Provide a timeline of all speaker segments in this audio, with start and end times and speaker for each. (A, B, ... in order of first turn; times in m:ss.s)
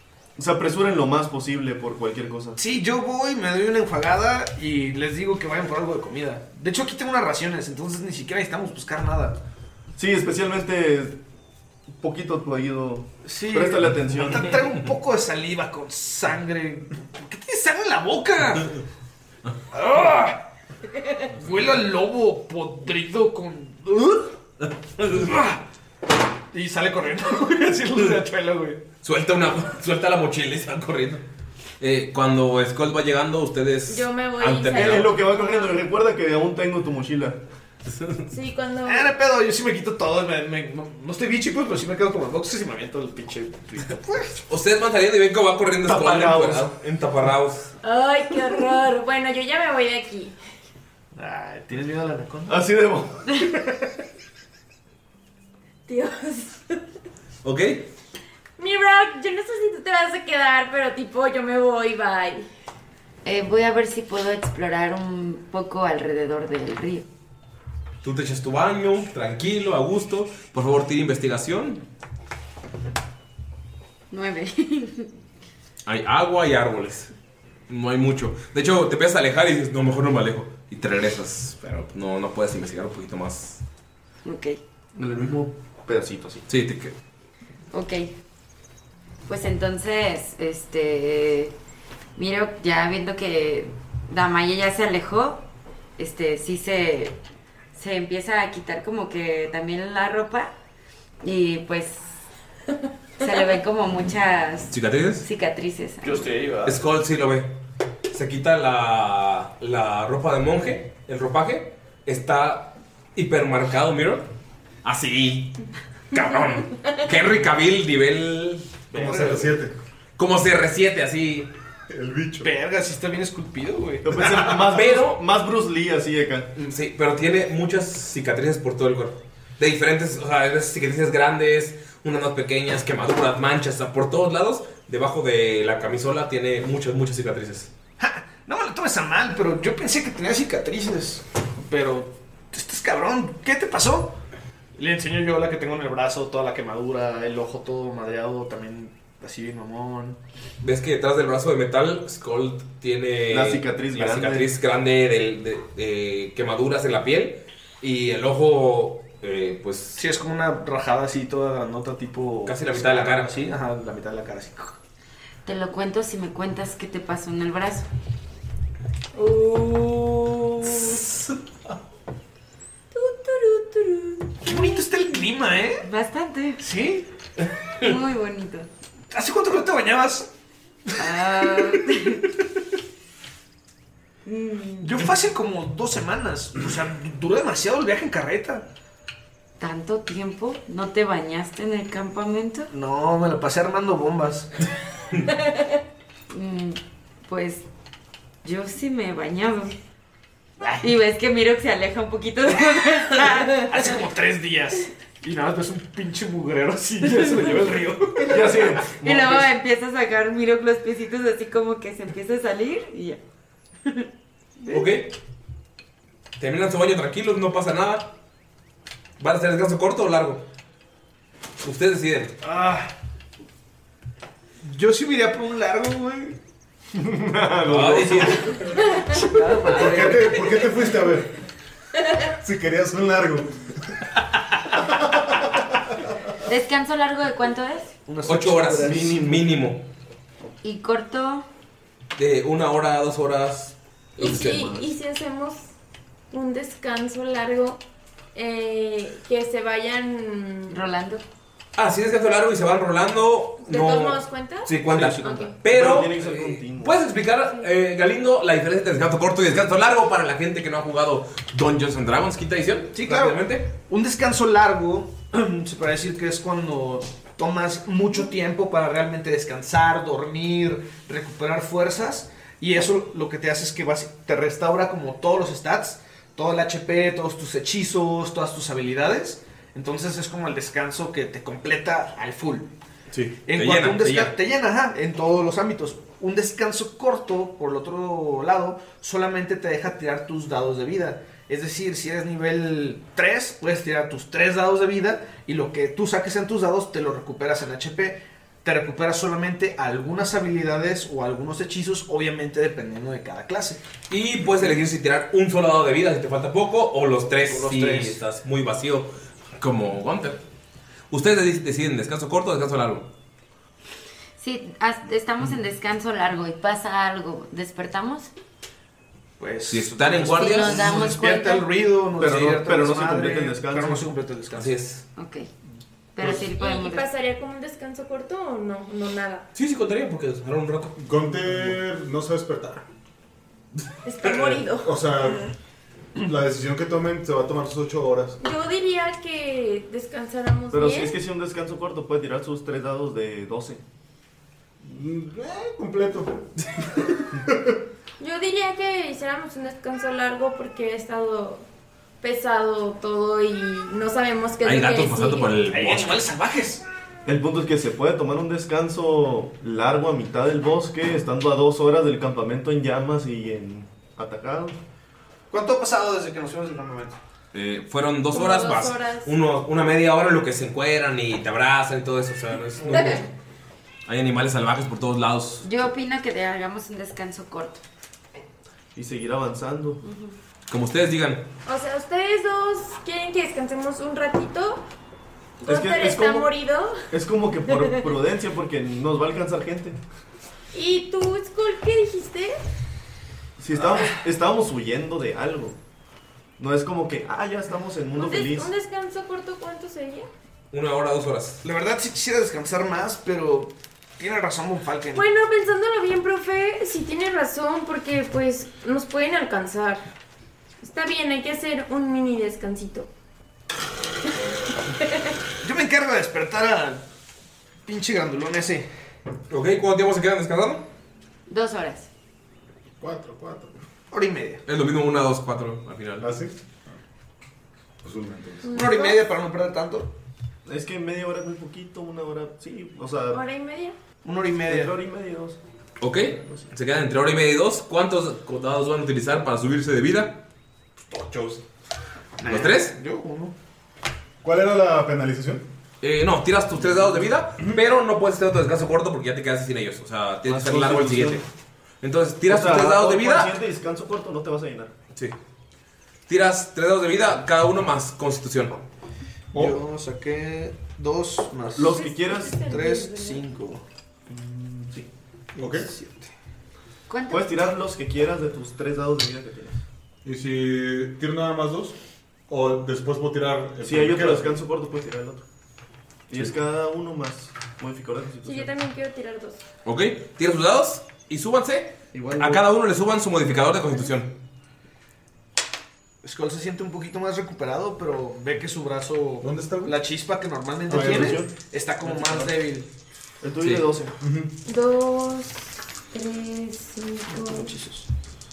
0:00.4-0:02.6 A
0:02.6-0:09.4 B
0:10.0-0:11.2 A
0:12.0-0:14.5 A
0:13.2-0:18.7 B
0:19.7-0:20.4 B
0:21.3-0:24.3 B
0:25.0-0:25.6 B
0:26.5-0:28.8 B
0:29.0-0:31.2 C
0:31.8-0:35.1 C
0:33.9-0:35.8 D
0:34.7-0:37.4 A
0:38.3-0:39.1 D
0:38.8-0:44.4 B
0:44.5-0:47.7 C
0:45.8-0:46.7 A
0:47.8-0:50.4 D
0:51.1-0:52.6 B
0:52.5-0:53.3 A
0:55.9-0:56.8 D
0:57.4-0:57.9 C
0:58.6-1:02.5 D
1:03.2-1:07.0 E
1:08.0-1:11.8 C
1:14.1-1:15.1 E
1:15.9-1:17.1 C
1:17.7-1:23.6 C
1:24.2-1:24.6 E
1:25.0-1:26.4 A
1:26.5-1:27.0 C
1:27.7-1:28.1 E
1:29.3-1:31.5 E
1:32.2-1:35.4 E
1:36.0-1:37.2 E
1:37.7-1:40.5 E
1:41.2-1:42.3 E
1:43.2-1:46.2 E
1:44.7-1:45.3 C
1:46.0-1:46.8 B
1:46.6-1:47.5 C
1:48.1-1:54.3 C
1:54.8-1:55.6 C
1:56.1-1:59.4 C
1:58.9-1:59.6 B
1:58.9-1:59.7 F
2:00.2-2:01.5 C
2:01.9-2:02.5 F
2:02.4-2:04.6 B
2:04.0-2:06.5 A
2:04.7-2:05.2 C
2:06.6-2:17.7 C
2:18.0-2:24.2 B
2:24.8-2:30.2 B
2:30.6-2:40.0 C
2:33.3-2:34.5 A
2:40.0-2:44.8 B
2:42.4-2:43.3 C
2:45.4-2:47.9 E
2:49.2-2:51.0 D
2:52.9-2:55.1 D
2:54.4-2:55.8 B
2:55.8-2:56.6 E
2:56.6-2:57.1 B
2:57.8-2:58.7 E
2:59.1-3:00.3 B
3:01.0-3:02.2 E
3:01.0-3:01.7 B
3:04.2-3:05.1 E
3:04.8-3:08.7 B
3:09.6-3:12.7 E
3:12.7-3:14.5 B
3:16.3-3:17.6 E
3:18.4-3:19.8 E
3:20.6-3:20.9 B
3:20.8-3:23.6 E
3:23.6-3:28.9 B
3:28.3-3:29.5 A
3:29.0-3:33.2 E
3:34.6-3:34.9 E
3:34.7-3:35.1 C
3:36.4-3:38.1 C
3:39.2-3:40.4 C
3:41.6-3:42.4 C
3:42.4-3:42.9 B
3:44.6-3:46.4 B
3:47.0-3:48.4 A
3:47.7-3:48.5 C
3:48.7-3:50.7 B
3:49.7-3:51.3 F
3:52.4-3:53.5 F
3:54.9-3:55.6 F
3:56.5-3:58.0 E
3:58.1-3:59.5 B
3:58.2-3:59.8 C
4:00.6-4:01.5 E
4:02.2-4:04.9 C
4:04.2-4:05.7 D
4:06.3-4:07.8 D
4:08.4-4:10.8 D
4:10.7-4:11.2 E
4:11.8-4:23.7 C
4:13.7-4:15.5 D
4:14.7-4:15.5 B
4:15.7-4:17.0 A
4:22.9-4:42.7 B
4:43.4-5:03.8 B
4:43.5-4:44.4 C
5:04.1-5:10.4 C
5:07.4-5:08.2 B
5:11.1-5:13.1 C
5:14.4-5:18.3 E
5:19.4-5:24.7 B
5:19.7-5:20.9 C
5:20.2-5:21.7 E
5:22.2-5:24.1 A
5:24.5-5:25.0 C
5:25.2-5:25.5 E
5:26.2-5:27.1 E
5:26.6-5:29.5 D
5:29.6-5:31.0 C
5:31.0-5:32.8 F
5:34.0-5:34.9 D
5:34.8-5:35.4 F
5:36.2-5:38.4 F
5:38.4-5:41.2 D
5:40.7-5:43.8 A
5:44.8-5:46.5 F
5:47.4-5:47.8 F
5:48.2-5:51.6 D
5:52.2-5:55.6 D
5:54.6-5:56.2 C
5:55.7-5:56.8 B
5:57.2-6:04.8 A
6:05.5-6:07.2 B
6:07.5-6:13.2 C
6:08.3-6:09.3 D
6:14.1-6:15.6 C
6:15.6-6:17.8 E
6:19.0-6:20.0 A
6:20.0-6:20.4 E
6:20.7-6:21.4 C
6:21.7-6:24.8 D
6:25.6-6:26.5 A
6:25.6-6:27.0 D
6:27.1-6:30.0 A
6:27.7-6:28.0 D
6:30.7-6:32.6 D
6:33.6-6:35.8 A
6:36.6-6:38.7 A
6:38.2-6:40.3 D
6:40.7-6:41.6 C
6:41.6-6:45.3 B
6:45.1-6:50.1 D
6:50.8-6:53.1 D
6:55.6-6:57.0 B
6:57.9-6:58.9 B
6:59.5-7:00.8 C
7:01.5-7:02.1 E
7:03.0-7:03.7 F
7:04.1-7:04.6 B
7:04.7-7:06.4 C
7:06.2-7:06.6 F
7:08.0-7:08.7 F
7:08.6-7:09.2 D
7:08.7-7:10.1 B
7:10.7-7:13.4 A
7:13.3-7:14.0 D
7:14.2-7:14.9 B
7:14.7-7:15.6 A
7:16.0-7:20.4 C
7:16.4-7:16.6 A
7:21.1-7:21.6 F
7:22.4-7:23.5 B
7:22.5-7:22.9 C
7:24.4-7:25.6 F
7:26.0-7:31.4 C
7:30.4-7:31.4 A
7:32.0-7:33.5 C
7:32.5-7:34.9 A
7:36.3-7:38.8 C
7:39.5-7:42.0 B
7:41.8-7:42.6 A
7:41.8-7:43.4 D
7:42.6-7:43.8 B
7:44.3-7:45.1 A
7:45.6-7:45.9 F
7:45.7-7:46.3 B
7:47.1-7:47.6 E
7:47.3-7:49.8 A
7:50.2-7:52.0 F
7:52.5-7:54.6 F
7:53.8-7:55.4 A
7:56.3-7:58.7 A
7:58.4-7:59.6 D
7:59.8-8:04.3 C
8:02.1-8:02.7 A
8:06.2-8:12.9 B
8:09.4-8:10.0 F
8:10.9-8:12.5 A
8:10.9-8:11.4 F
8:13.4-8:14.2 A
8:14.2-8:14.5 F
8:14.7-8:17.7 D
8:17.3-8:18.1 B